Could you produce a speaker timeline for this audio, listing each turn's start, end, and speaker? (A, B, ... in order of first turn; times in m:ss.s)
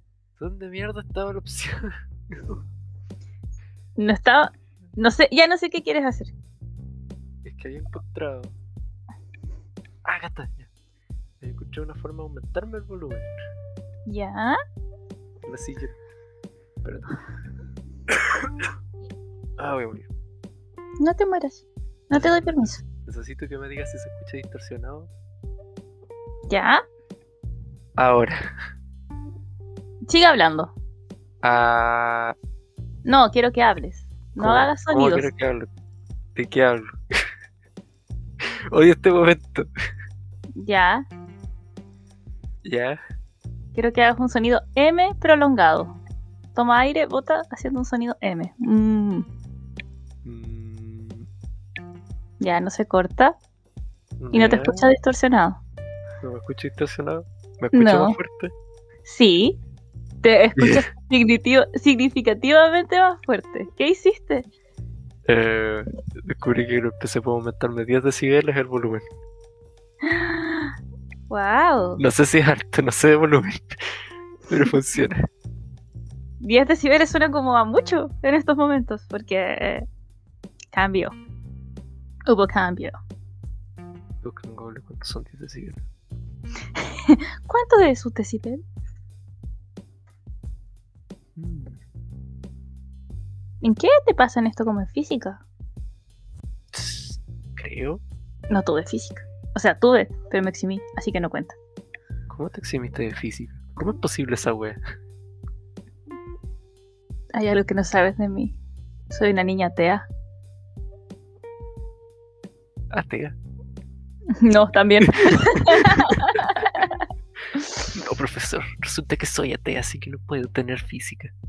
0:00.4-0:02.6 A
0:04.0-0:06.3 B
0:07.4-0:08.5 A
0:10.0-0:10.7 A
0:11.4-0:13.3 A
0:14.1-0:14.6 B
0:15.4-0:16.0 A
0:16.8-0:17.2 A
0:19.6-0:20.1 A
0:21.0-0:22.8 B
0:22.1-0:25.1 A
0:26.5-0:26.8 B
0:28.0-0:28.4 A
0:30.1-0:30.7 B
0:31.4-0:32.4 A
0:33.0-0:35.3 B
0:34.4-0:35.7 A
0:36.4-0:36.9 A
0:38.7-0:39.7 A
0:40.6-0:41.1 B
0:42.6-0:43.0 A
0:43.8-0:46.0 B
0:46.6-0:49.3 B
0:50.2-0:51.3 A
0:52.4-0:53.4 B
0:54.2-0:54.9 A
0:54.3-0:55.6 B
0:56.2-0:58.5 A
0:57.7-0:58.2 B
0:59.1-0:59.6 B
1:00.2-1:04.5 B
1:00.6-1:00.9 A
1:05.3-1:09.0 A
1:10.0-1:10.7 B
1:11.3-1:12.0 B
1:12.0-1:13.8 A
1:14.5-1:15.2 A
1:16.4-1:19.9 B
1:20.7-1:21.2 B
1:22.3-1:23.0 B
1:24.2-1:25.8 A
1:27.0-1:28.6 B
1:31.4-1:31.8 A
1:33.6-1:35.4 B
1:36.7-1:38.0 A
1:38.5-1:41.6 B
1:42.3-1:44.8 A
1:47.3-1:48.6 B
1:49.1-1:50.1 B
1:52.9-1:53.4 A
1:54.3-1:57.0 B
1:55.1-1:56.1 A
1:57.9-2:01.3 A